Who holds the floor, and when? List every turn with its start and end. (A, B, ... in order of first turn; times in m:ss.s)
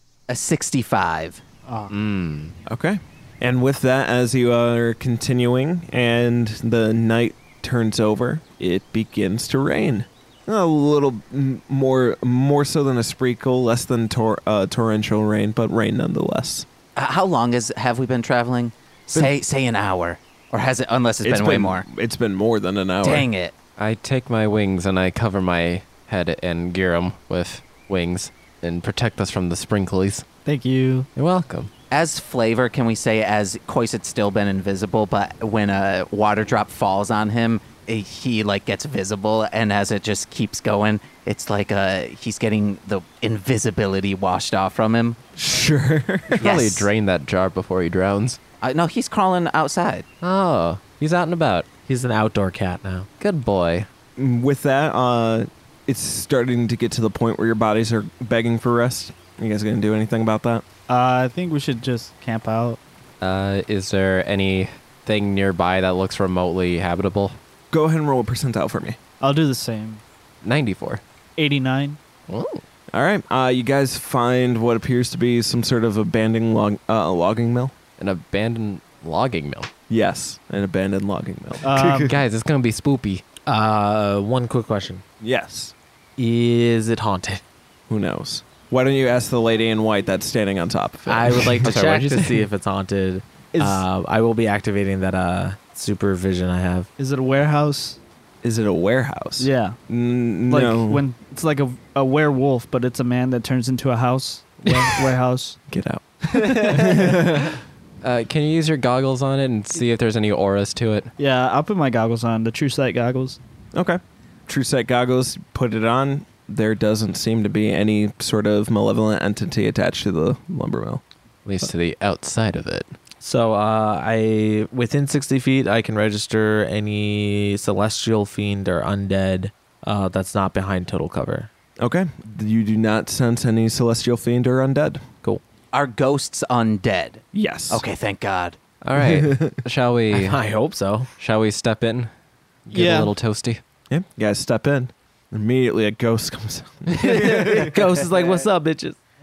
0:00.3-0:01.4 A
0:01.6-0:01.9 B
0:01.9-0:02.6 C
0:02.6-0:16.7 D
0:17.0-0:21.8 A
0:21.2-0:23.3 D
0:23.0-0:23.5 A
0:23.8-0:30.2 C
0:30.4-0:31.1 B
0:31.2-0:31.7 C
0:31.9-0:45.2 A
0:45.4-0:46.6 D
0:46.4-0:48.4 C
0:46.4-0:46.9 A
0:48.6-0:50.1 A
0:50.2-0:51.7 C
0:51.9-0:53.1 E
0:53.2-0:53.9 C
0:54.2-1:00.6 D
1:00.9-1:02.8 B
1:03.2-1:07.4 C
1:07.7-1:09.0 D
1:09.2-1:10.0 B
1:10.4-1:11.0 C
1:11.4-1:12.0 B
1:12.3-1:12.6 C
1:12.9-1:17.7 D
1:18.0-1:19.7 C
1:19.9-1:22.2 D
1:21.6-1:22.1 B
1:22.0-1:23.2 C
1:23.4-1:25.0 E
1:25.2-1:25.7 D
1:26.2-1:27.4 E
1:27.9-1:31.7 D
1:31.1-1:36.9 E
1:31.6-1:32.4 C
1:33.5-1:33.8 B
1:37.0-1:38.0 B
1:38.4-1:41.0 D
1:39.4-1:39.8 B
1:40.5-1:45.6 B
1:45.7-1:47.6 D
1:46.3-1:47.2 B
1:48.0-1:51.1 C
1:51.2-1:53.4 B
1:53.7-2:01.0 D
2:01.4-2:02.9 C
2:03.2-2:11.5 E
2:11.8-2:15.0 D
2:15.7-2:18.6 A
2:17.3-2:17.8 D
2:18.8-2:20.4 C
2:19.0-2:19.6 D
2:20.1-2:21.1 E
2:21.2-2:22.1 C
2:22.6-2:23.6 C
2:22.7-2:23.1 B
2:23.9-2:28.0 D
2:26.9-2:29.0 E